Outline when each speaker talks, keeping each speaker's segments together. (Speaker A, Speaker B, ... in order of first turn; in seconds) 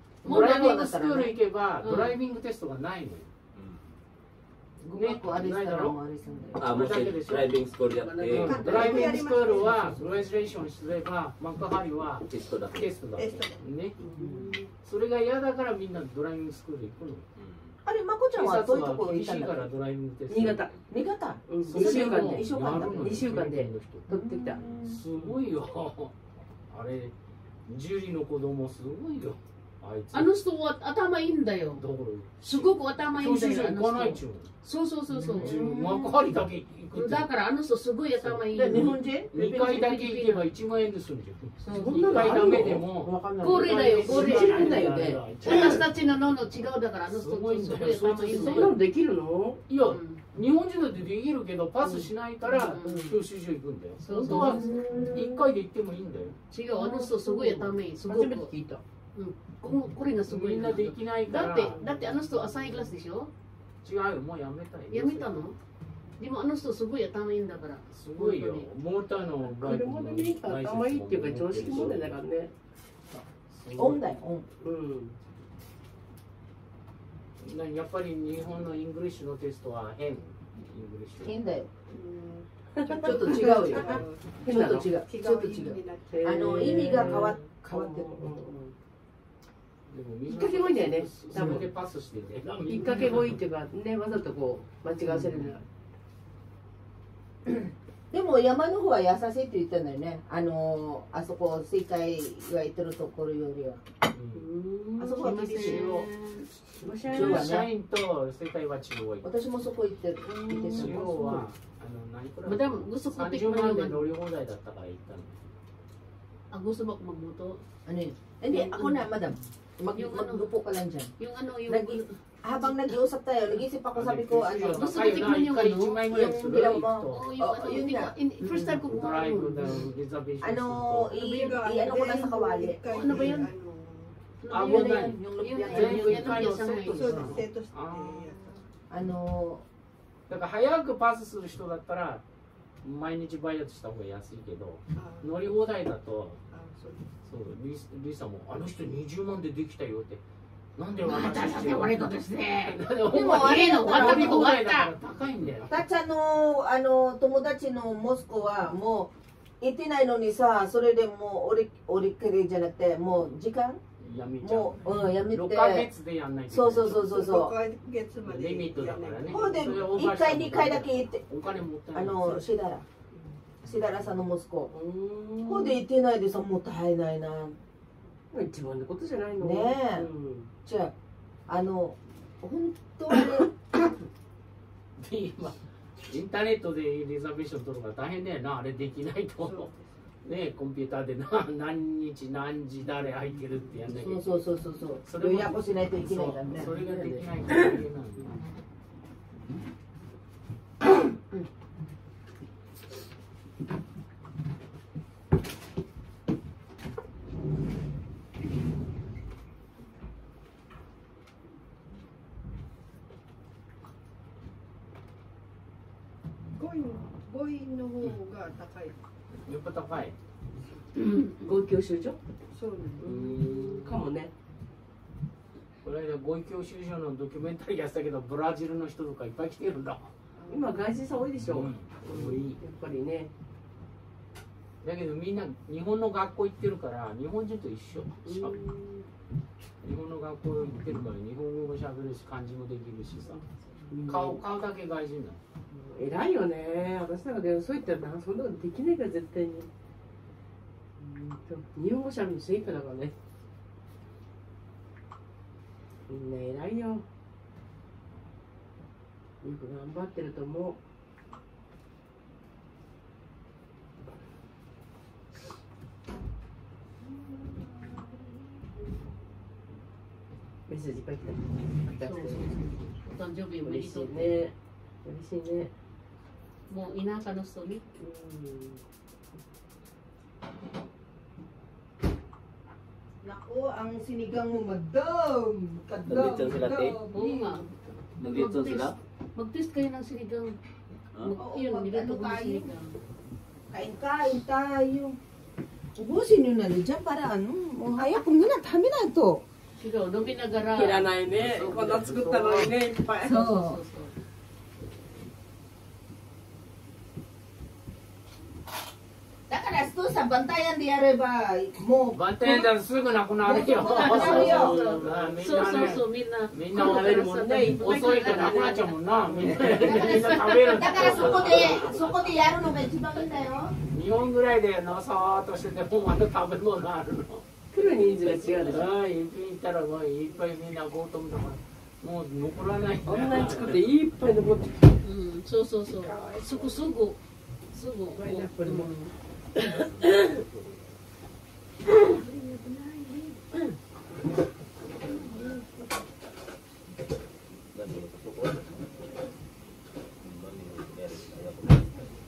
Speaker A: 0.2-1.3, 4.8-6.7, 8.7-9.2, 14.2-14.6, 17.8-19.7, 20.9-23.4, 24.1-25.0, 35.1-36.1, 38.5-39.3, 42.2-42.6, 54.3-55.4, 73.7-74.5, 81.2-81.7, 82.9-88.3, 91.3-91.6, 95.0-95.5, 97.4-103.8, 105.0-106.0, 107.0-107.7, 109.2-111.2, 117.8-121.1, 121.7-125.2, 126.0-128.1, 130.4-133.4, 134.5-136.5, 138.9-139.6, 153.1-154.5, 155.7-159.1, 159.6-163.8, 164.4-165.9, 166.5-167.5, 169.3-171.2, 171.9-172.8, 173.6-174.7, 175.4-177.6, 179.4-180.1, 180.7-180.9, 181.5-183.7, 193.9-197.3, 283.2-287.6, 291.4-292.7, 293.7-295.2, 295.9-299.4, 303.2-303.8, 309.5-312.6, 313.4-314.8, 320.7-323.7
Speaker B: 0.2-3.3, 4.9-6.0, 6.6-7.5, 8.2-13.9, 14.8-17.3, 18.3-20.7, 21.6-24.1, 24.9-26.1, 26.7-27.1, 27.7-30.3, 31.8-34.5, 35.4-37.3, 38.2-45.9, 47.1-48.8, 49.7-56.4, 60.3-61.8, 63.8-65.5, 67.9-72.2, 73.5-74.0, 77.4-81.4, 89.9-93.4, 104.1-104.5, 105.5-106.0, 107.1-109.3, 110.7-115.5, 123.9-127.3, 128.7-131.2, 134.5-138.3, 140.3-142.2, 142.8-146.4, 147.2-150.2, 150.8-155.8, 164.0-167.1, 168.2-172.5, 185.0-189.7, 190.2-194.3, 195.0-198.3, 219.4-220.2, 223.0-224.0, 225.8-230.1, 231.4-232.6, 234.8-238.7, 239.8-243.4, 244.1-245.4, 301.2-302.8, 312.1-321.7, 323.9-327.4, 328.6-333.9
Speaker C: 0.2-0.8, 1.8-2.2, 21.8-22.4, 30.1-31.8, 32.4-35.7, 36.9-40.4, 41.6-42.4, 43.4-44.9, 45.4-48.8, 49.9-50.2, 52.4-53.2, 54.0-54.7, 56.5-58.5, 59.1-63.3, 64.9-65.5, 66.2-68.7, 105.0-106.4, 112.4-114.1, 116.5-117.6, 118.5-119.1, 119.9-120.5, 121.2-122.1, 124.7-126.0, 127.1-129.9, 132.9-133.5, 134.4-137.3, 151.0-154.9, 272.0-274.4, 276.7-277.8, 287.1-287.7, 288.2-290.6, 291.2-292.9, 299.8-301.1, 303.2-304.1, 313.9-318.7, 319.7-320.8, 335.0-337.2, 337.7-339.1
Speaker D: 3.5-3.9, 6.6-8.7, 12.2-12.9, 17.4-17.8, 286.0-287.0, 288.2-288.9, 320.8-322.6, 327.9-328.8, 339.8-340.9, 347.7-349.0, 350.2-352.0
Speaker E: 8.0-8.9, 14.2-14.5, 20.3-20.7, 21.5-24.6, 41.7-45.3, 48.3-49.6, 54.1-55.4, 56.7-58.8, 69.4-72.5, 74.6-75.2, 82.8-84.9, 86.1-88.7, 90.3-91.7, 92.7-95.6, 104.3-105.4, 106.8-107.6, 110.3-111.5, 174.7-175.8, 178.3-180.5, 220.9-222.2, 223.0-224.3, 230.5-233.3, 238.2-239.1, 243.9-244.4, 245.7-249.7, 251.0-253.1, 256.1-257.0, 259.4-260.8, 270.7-272.6, 273.6-275.7, 278.0-278.8, 300.7-303.5, 314.2-315.0, 316.7-320.2, 327.7-328.9, 333.1-335.0, 336.1-336.4, 338.1-338.9, 339.5-340.4, 341.9-343.8, 345.0-345.9
Speaker F: 8.3-10.2, 13.2-13.6, 81.9-87.1, 131.1-134.2, 136.9-138.7, 144.9-145.5, 146.5-147.1, 166.9-169.8, 189.4-189.9, 216.6-219.0, 222.5-223.1, 230.3-230.9, 336.3-336.8